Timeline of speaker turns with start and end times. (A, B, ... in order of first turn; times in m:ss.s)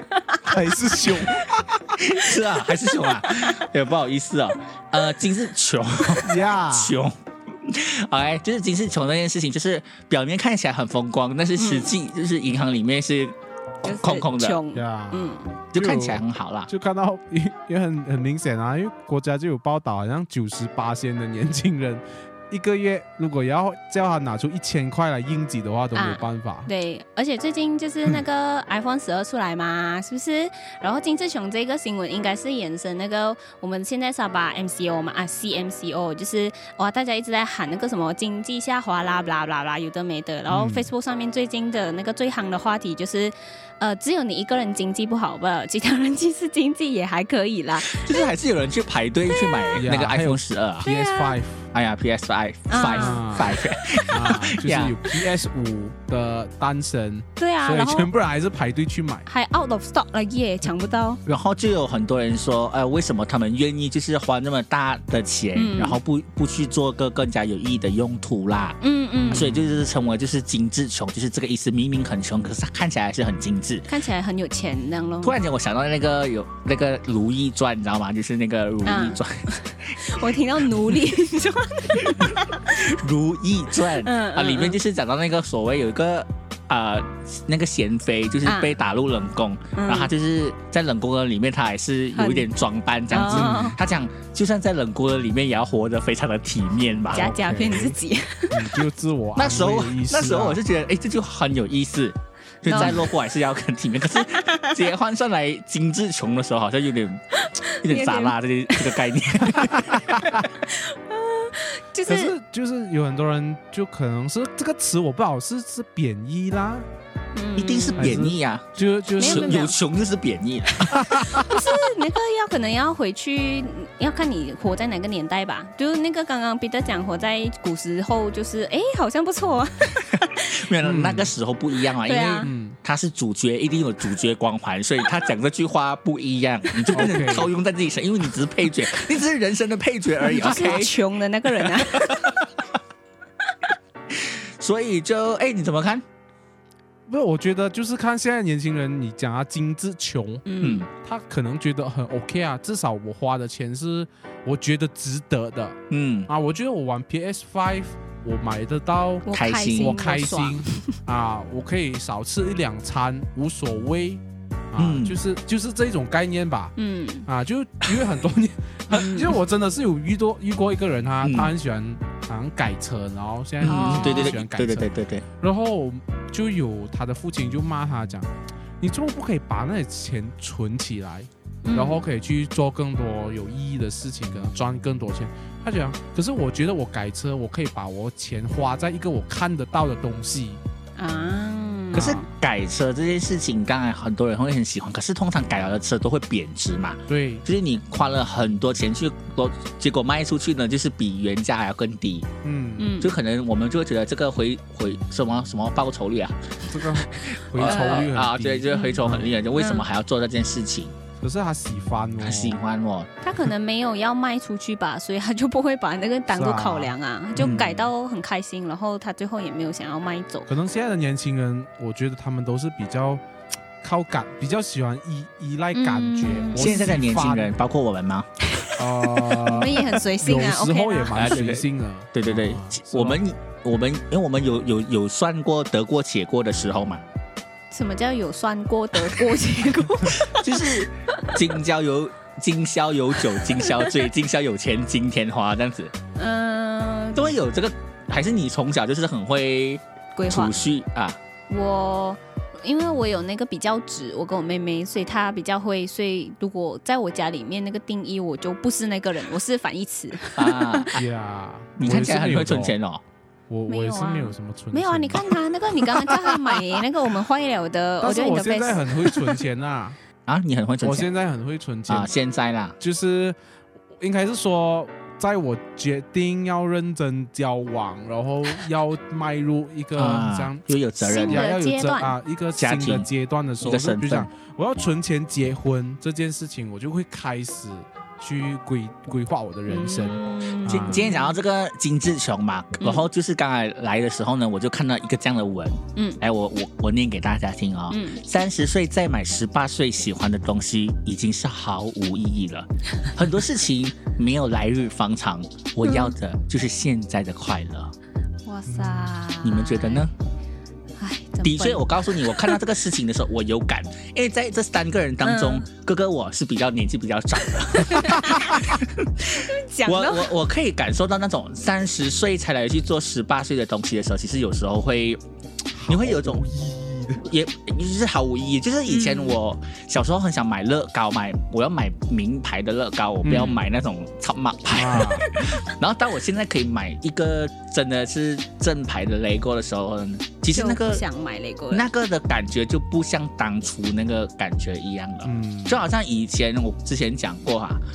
0:00.4-0:02.0 A
0:02.0-0:14.6 B
0:06.2-0:07.0 A
0:11.6-0:11.9 C
0:13.8-0:15.5 C
0:14.7-0:26.7 A
0:15.7-0:16.7 B
0:25.9-0:48.2 C
0:40.5-0:40.9 A
0:47.9-0:50.8 B
0:49.8-0:51.7 A
0:50.8-0:51.4 C
0:51.7-0:55.1 B
0:52.7-0:53.4 C
0:52.9-0:53.5 A
0:54.1-0:59.2 A
0:57.4-0:58.1 C
0:59.3-1:01.2 C
1:01.2-1:08.8 B
1:05.6-1:06.0 C
1:08.8-1:09.5 C
1:09.3-1:09.7 A
1:09.3-1:13.9 B
1:13.9-1:15.4 C
1:15.2-1:20.0 B
1:18.8-1:22.9 C
1:22.0-1:37.3 B
1:24.0-1:24.8 C
1:28.4-1:28.8 C
1:29.7-1:30.1 C
1:32.1-1:32.4 C
1:33.1-1:33.8 C
1:33.3-1:33.8 A
1:37.1-1:38.8 C
1:37.1-1:38.0 A
1:38.5-1:40.6 A
1:39.4-1:47.2 B
1:42.6-1:43.0 C
1:44.3-1:44.7 C
1:47.4-1:49.0 C
1:47.8-1:50.4 B
1:49.6-1:50.4 A
1:50.6-1:52.3 C
1:52.1-1:56.8 A
1:57.3-1:58.1 C
1:57.6-1:58.6 B
1:57.9-1:59.6 A
1:59.2-1:59.8 C
1:59.2-2:01.1 B
2:00.8-2:10.6 C
2:00.9-2:01.5 A
2:10.4-2:22.6 B
2:10.8-2:11.3 A
2:12.0-2:12.5 C
2:12.4-2:12.8 A
2:16.8-2:17.1 C
2:16.9-2:17.5 A
2:20.2-2:22.3 C
2:24.1-2:26.0 B
2:27.1-2:46.7 A
2:30.4-2:30.8 C
2:30.6-2:30.9 B
2:35.9-2:36.3 B
2:39.2-2:40.9 C
2:39.3-2:40.0 B
2:44.8-2:45.2 B
2:46.8-2:47.3 C
2:47.2-3:10.6 A
2:48.9-2:49.3 C
2:51.2-2:51.5 B
2:53.6-2:55.2 B
2:53.6-2:54.4 C
3:01.6-3:02.0 C
3:11.0-3:12.3 C
3:11.9-3:22.3 B
3:17.1-3:17.4 A
3:22.4-3:22.9 A
3:22.8-3:23.1 C
3:23.0-3:30.9 B
3:26.7-3:29.3 A
3:27.6-3:28.1 C
3:28.7-3:29.0 C
3:29.5-3:29.8 C
3:31.2-3:32.6 A
3:32.2-3:33.1 B
3:33.2-3:40.5 C
3:36.3-3:37.7 A
3:37.4-3:37.8 B
3:40.4-3:43.2 A
3:43.8-3:47.5 A
3:45.7-3:46.7 C
3:46.5-3:48.3 B
3:48.5-3:51.4 C
3:48.8-3:53.2 A
3:51.1-3:57.0 B
3:57.7-4:00.7 C
4:00.0-4:05.9 B
4:03.3-4:03.9 C
4:06.2-4:07.4 C
4:07.1-4:11.2 B
4:10.2-4:10.6 C
4:11.5-4:20.9 C
4:20.3-4:21.0 B
4:20.9-4:22.8 A
4:21.8-4:23.0 B
4:23.5-4:25.3 A
4:23.7-4:29.4 C
4:25.8-4:26.7 A
4:28.0-4:30.0 A
4:30.3-4:31.1 B
4:30.8-4:32.1 A
4:31.9-4:32.8 B
4:32.8-4:33.4 A
4:34.0-4:51.0 A
4:39.9-4:41.5 B
4:41.0-4:42.2 C
4:42.5-4:43.1 B
4:43.6-4:44.3 B
4:49.7-4:51.4 C
4:50.6-5:07.9 B
4:52.8-4:53.0 C
4:57.9-4:58.2 C
5:05.8-5:06.1 C
5:08.4-5:10.1 C
5:08.7-5:09.2 A
5:09.4-5:10.1 B
5:11.0-5:12.6 C
5:11.4-5:25.2 B
5:15.2-5:15.6 C
5:17.7-5:18.6 C
5:19.3-5:20.3 C
5:25.7-5:27.2 A
5:25.9-5:26.4 B
5:27.2-5:41.0 B
5:28.9-5:29.4 C
5:33.2-5:33.5 A
5:33.3-5:33.6 C
5:34.7-5:35.3 A
5:40.5-5:41.8 C
5:41.7-5:47.8 B
5:45.2-5:45.8 A